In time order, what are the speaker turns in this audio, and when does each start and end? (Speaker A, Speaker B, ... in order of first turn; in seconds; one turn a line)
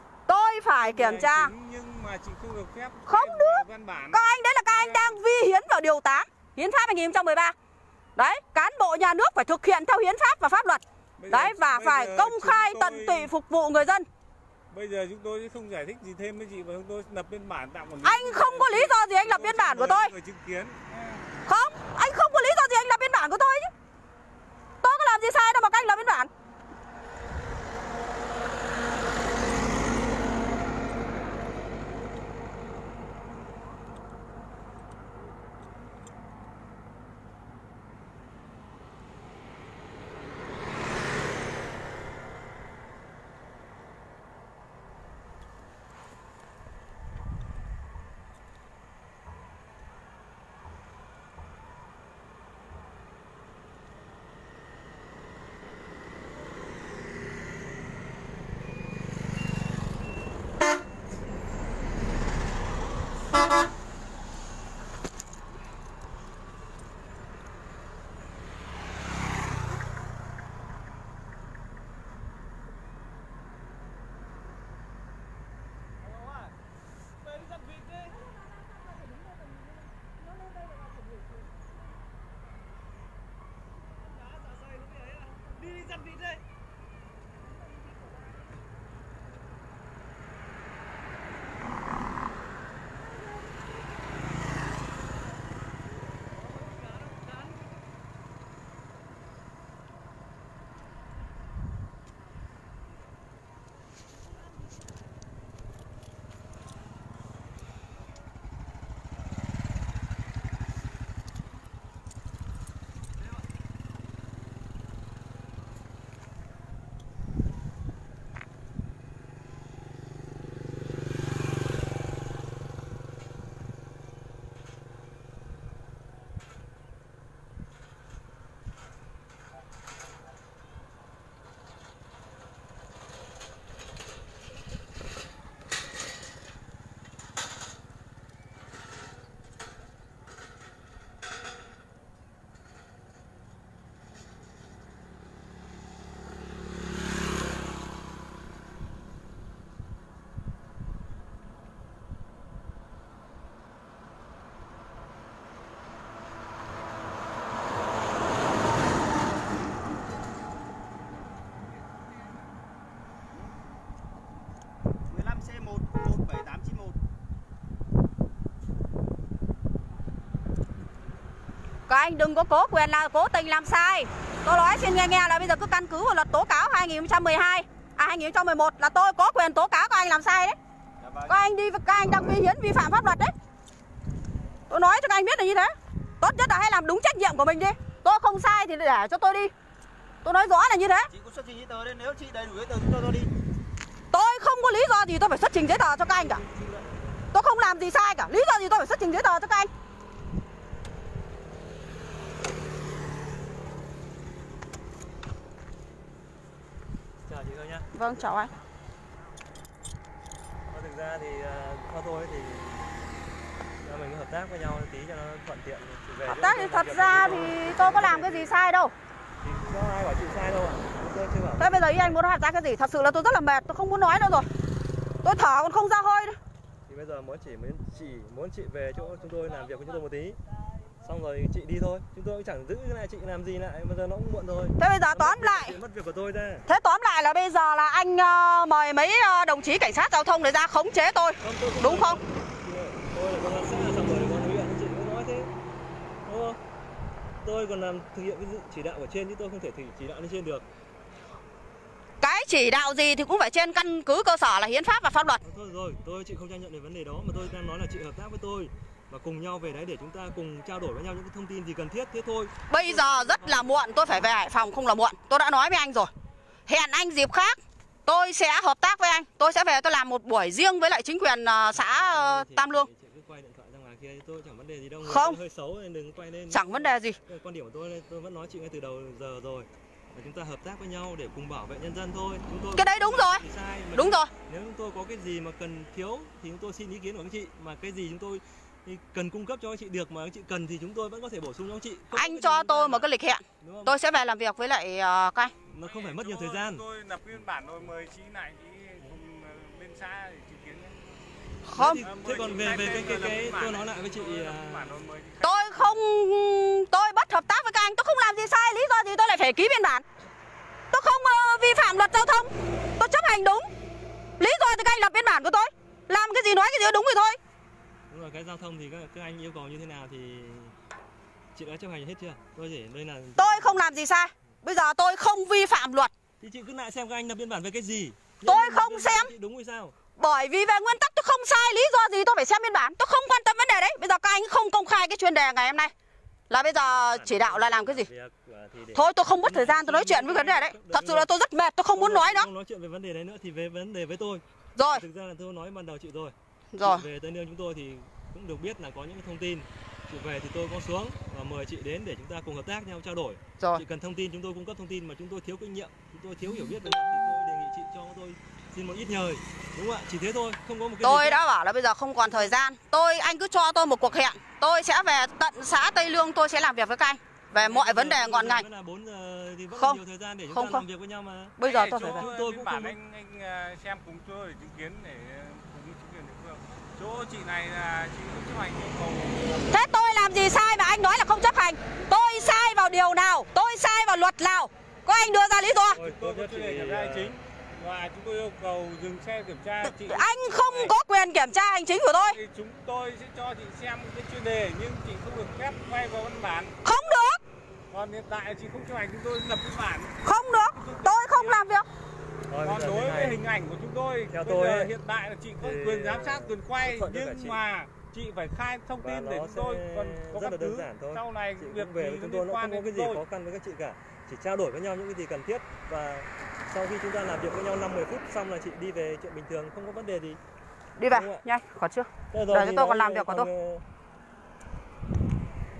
Speaker A: 0.3-1.5
Speaker B: 0.8-5.2
Speaker A: 3.1-7.5
Speaker A: 8.2-14.1
Speaker B: 11.2-13.3
Speaker B: 14.7-21.2
Speaker A: 18.0-20.1
Speaker A: 21.5-23.7
Speaker A: 24.8-26.3
Speaker C: 165.1-167.0
Speaker A: 171.9-180.6
Speaker C: 181.0-181.4
Speaker A: 181.3-183.3
Speaker C: 181.9-182.5
Speaker A: 184.7-189.5
Speaker A: 190.2-191.1
Speaker C: 191.1-193.3
Speaker A: 194.1-196.4
Speaker C: 196.1-196.9
Speaker A: 197.3-199.7
Speaker D: 207.2-207.9
Speaker A: 207.9-208.5
Speaker D: 210.7-212.8
Speaker D: 213.8-218.5
Speaker A: 216.3-218.9
Speaker D: 219.4-222.2
Speaker A: 221.6-224.5
Speaker A: 225.2-226.4
Speaker D: 226.9-230.4
Speaker D: 231.0-236.7
Speaker A: 234.8-235.8
Speaker A: 236.7-242.2
Speaker D: 241.4-245.5
Speaker D: 246.3-246.6
Speaker D: 247.4-250.7
Speaker A: 252.2-255.4
Speaker D: 255.4-263.8
Speaker A: 262.7-266.1
Speaker A: 266.7-272.9
Speaker D: 271.6-293.1
Speaker A: 275.0-275.4
Speaker A: 276.5-277.2
Speaker A: 282.7-284.3
Speaker A: 292.1-295.5
Speaker D: 293.6-293.9
Speaker D: 295.7-296.8
Speaker B: 295.8-301.0
Speaker A: 301.7-302.1
Speaker D: 301.8-305.0
Speaker B: 302.0-306.0
Speaker A: 305.4-310.0
Speaker A: 310.9-313.7
Speaker A: 314.4-317.4
Speaker D: 318.1-320.7
Speaker D: 321.5-323.9
Speaker A: 323.4-326.1
Speaker D: 326.4-329.9
Speaker A: 328.4-329.3
Speaker A: 330.2-335.9
Speaker A: 336.5-338.1
Speaker D: 336.5-341.3
Speaker A: 338.9-342.5
Speaker D: 341.9-361.4
Speaker A: 344.8-345.1
Speaker A: 346.7-347.1
Speaker A: 361.0-368.7
Speaker D: 362.3-362.5
Speaker D: 367.5-373.0
Speaker A: 369.7-370.9
Speaker A: 371.6-372.3
Speaker B: 371.6-379.7
Speaker A: 379.7-386.0
Speaker D: 385.9-387.4
Speaker B: 386.0-391.0
Speaker A: 389.9-392.4
Speaker B: 392.1-396.9
Speaker A: 396.8-397.4
Speaker B: 397.9-400.2
Speaker A: 400.2-401.9
Speaker B: 400.7-401.6
Speaker D: 402.5-403.4
Speaker B: 402.6-413.2
Speaker D: 404.3-404.9
Speaker D: 405.6-407.6
Speaker D: 409.0-420.4
Speaker A: 421.0-423.5
Speaker D: 421.1-421.4
Speaker D: 422.3-423.8